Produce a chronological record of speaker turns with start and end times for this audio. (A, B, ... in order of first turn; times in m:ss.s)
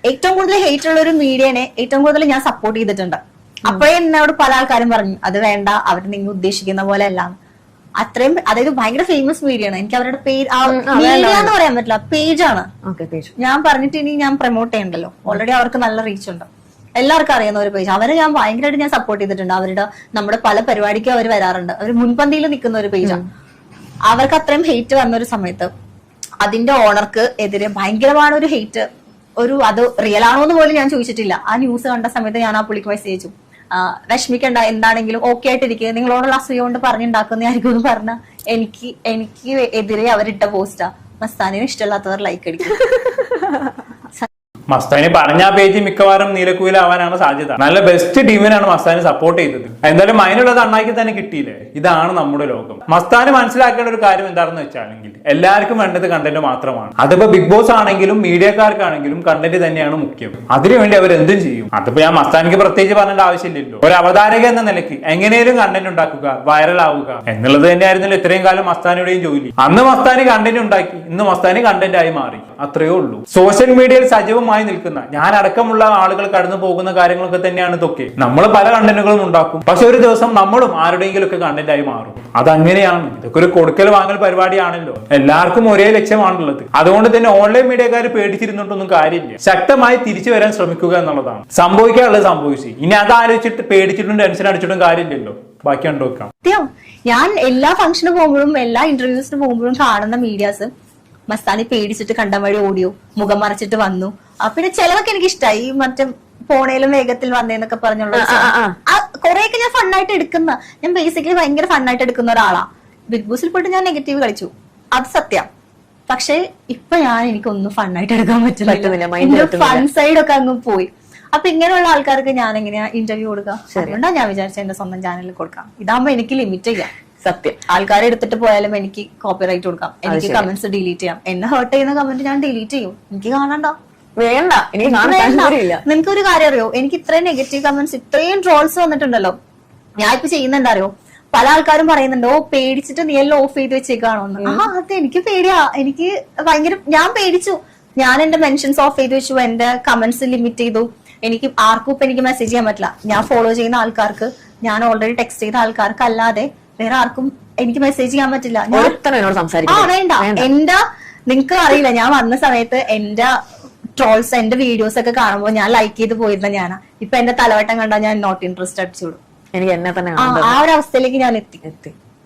0:00.1-0:07.4 A
0:08.0-0:12.7 A
0:10.7-0:11.5 B
0:12.8-0:13.3 B
0:13.4-0:23.2 A
0:24.1-0:25.7 A
0:26.4-0:28.9 A
0:29.4-0:42.9 A
0:44.7-1:36.3 C
1:36.4-1:40.7 A
1:41.3-1:55.5 A
1:48.1-1:48.8 B
1:56.1-2:06.9 A
1:58.7-1:59.9 B
2:03.7-2:04.0 B
2:07.2-2:07.6 B
2:07.7-2:13.8 A
2:10.1-2:10.5 B
2:14.2-2:15.8 B
2:14.8-2:19.4 A
2:20.0-2:39.0 A
2:24.4-2:24.7 B
2:38.7-2:40.5 B
2:39.7-2:43.3 A
2:44.0-2:49.2 A
2:49.5-2:50.6 B
2:50.2-2:51.6 A
2:51.6-2:51.9 B